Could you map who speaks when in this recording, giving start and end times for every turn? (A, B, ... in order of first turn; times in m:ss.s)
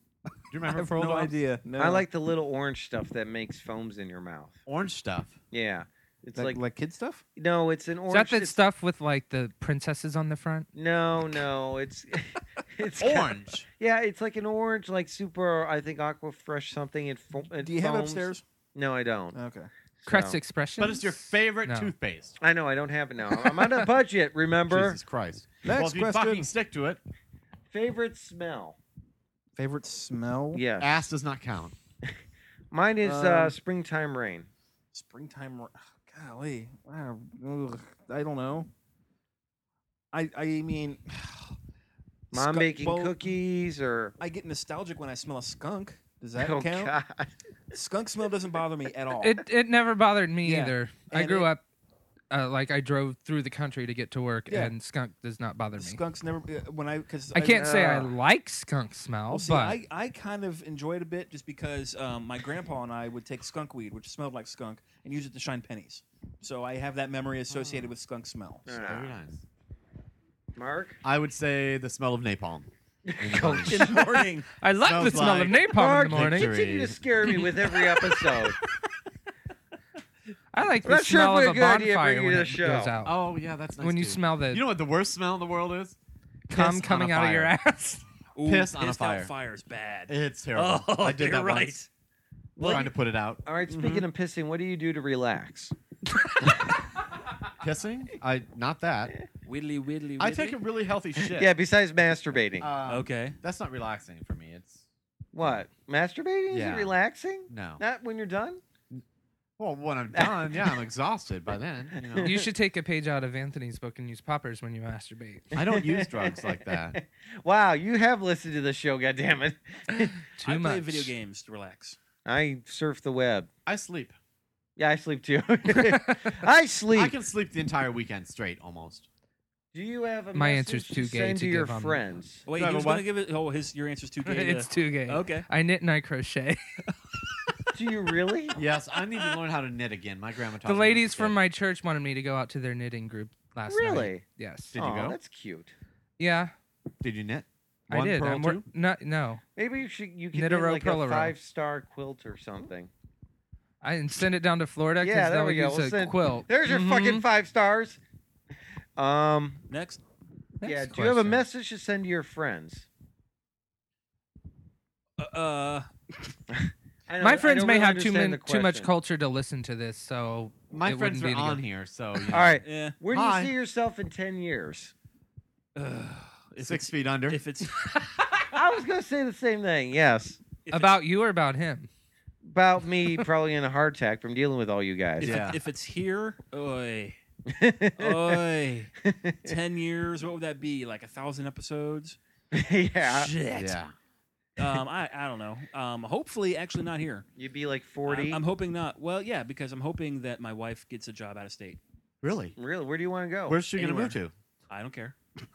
0:00.5-0:01.3 A
0:00.7-0:02.1 B
0:01.8-0:04.6 C
0:04.7-0:05.4 A
0:05.5-0:06.6 C
0:06.3-0:07.2 B
0:07.4-0:08.6 C
0:08.1-0:10.7 D
0:10.7-0:19.4 C
0:13.0-0:13.6 A
0:17.6-0:18.4 B
0:19.3-0:19.7 B
0:20.0-0:20.4 C
0:20.0-0:21.9 D
0:20.8-0:22.4 A
0:22.4-0:25.0 C
0:24.7-0:27.0 A
0:25.6-0:26.5 B
0:27.7-0:28.8 C
0:29.6-0:30.7 B
0:30.5-0:30.9 C
0:30.8-0:31.7 A
0:32.7-0:34.5 C
0:33.0-0:33.6 B
0:34.9-0:38.7 B
0:40.1-0:41.0 B
0:42.3-0:43.2 B
0:42.3-0:44.1 C
0:44.2-0:46.9 B
0:46.4-0:47.3 C
0:47.7-0:49.3 B
0:49.2-0:51.6 D
0:50.4-0:51.5 B
0:52.3-0:56.0 D
0:55.8-0:57.9 B
0:57.3-0:59.8 D
0:57.6-0:58.1 C
0:59.3-1:01.7 B
1:01.7-1:02.2 E
1:02.3-1:08.7 B
1:08.7-1:09.1 C
1:08.7-1:09.4 A
1:10.6-1:11.0 C
1:11.0-1:14.0 A
1:13.0-1:14.3 C
1:13.7-1:14.5 E
1:14.6-1:16.6 D
1:14.8-1:17.0 A
1:15.7-1:18.6 C
1:20.5-1:23.2 D
1:20.8-1:23.0 C
1:23.0-1:26.0 A
1:23.8-1:24.6 D
1:26.5-1:27.5 A
1:26.5-1:28.0 D
1:28.4-1:31.9 E
1:28.4-1:29.3 A
1:30.1-1:31.8 A
1:32.6-1:35.7 C
1:32.6-1:32.9 E
1:32.6-1:33.4 A
1:33.7-1:34.0 E
1:37.6-1:39.2 A
1:39.4-1:40.6 E
1:40.2-1:41.5 A
1:41.2-1:42.7 C
1:42.6-1:44.8 A
1:42.9-1:43.4 E
1:45.3-1:48.6 C
1:46.5-1:47.0 A
1:47.5-1:47.8 A
1:49.6-1:52.3 A
1:50.1-1:50.8 C
1:52.0-1:52.4 C
1:52.2-1:55.5 D
1:55.5-2:00.2 C
1:55.5-1:57.0 A
2:00.2-2:01.1 D
2:00.4-2:02.0 E
2:02.2-2:03.5 C
2:03.7-2:04.1 A
2:04.8-2:07.1 C
2:05.7-2:06.4 D
2:06.9-2:09.1 A
2:09.7-2:12.4 C
2:10.4-2:12.0 D
2:12.5-2:15.5 E
2:12.5-2:13.1 A
2:14.2-2:16.6 D
2:17.7-2:18.6 C
2:18.6-2:21.4 A
2:19.0-2:19.3 E
2:20.6-2:24.8 D
2:23.7-2:24.2 C
2:24.7-2:25.2 A
2:24.7-2:25.7 C
2:26.2-2:26.5 D
2:27.0-2:28.6 A
2:27.9-2:29.4 D
2:29.6-2:32.9 C
2:30.3-2:31.3 D
2:33.8-2:37.2 D
2:35.0-2:38.0 C
2:39.0-2:39.6 C
2:39.7-2:40.0 E
2:40.6-2:41.4 D
2:40.6-2:42.9 C
2:45.2-2:45.9 E
2:47.1-2:48.9 C
2:47.2-2:51.6 D
2:50.7-2:53.5 A
2:52.3-2:54.9 C
2:52.6-2:53.0 E
2:55.7-2:57.8 E
2:56.6-2:57.4 A
2:58.5-3:00.4 C
3:00.7-3:01.0 E
3:00.7-3:01.9 D
3:02.4-3:05.4 C
3:05.2-3:07.2 E
3:05.2-3:05.6 A
3:07.5-3:08.4 C
3:08.0-3:08.9 E
3:09.0-3:09.6 C
3:09.4-3:12.2 E
3:12.5-3:13.3 C
3:13.1-3:13.8 E
3:13.5-3:13.9 A
3:14.6-3:17.3 E
3:17.4-3:18.4 C
3:18.1-3:21.8 E
3:22.2-3:22.5 A
3:22.6-3:23.6 C
3:23.5-3:24.3 A
3:23.8-3:24.2 E
3:24.7-3:25.2 E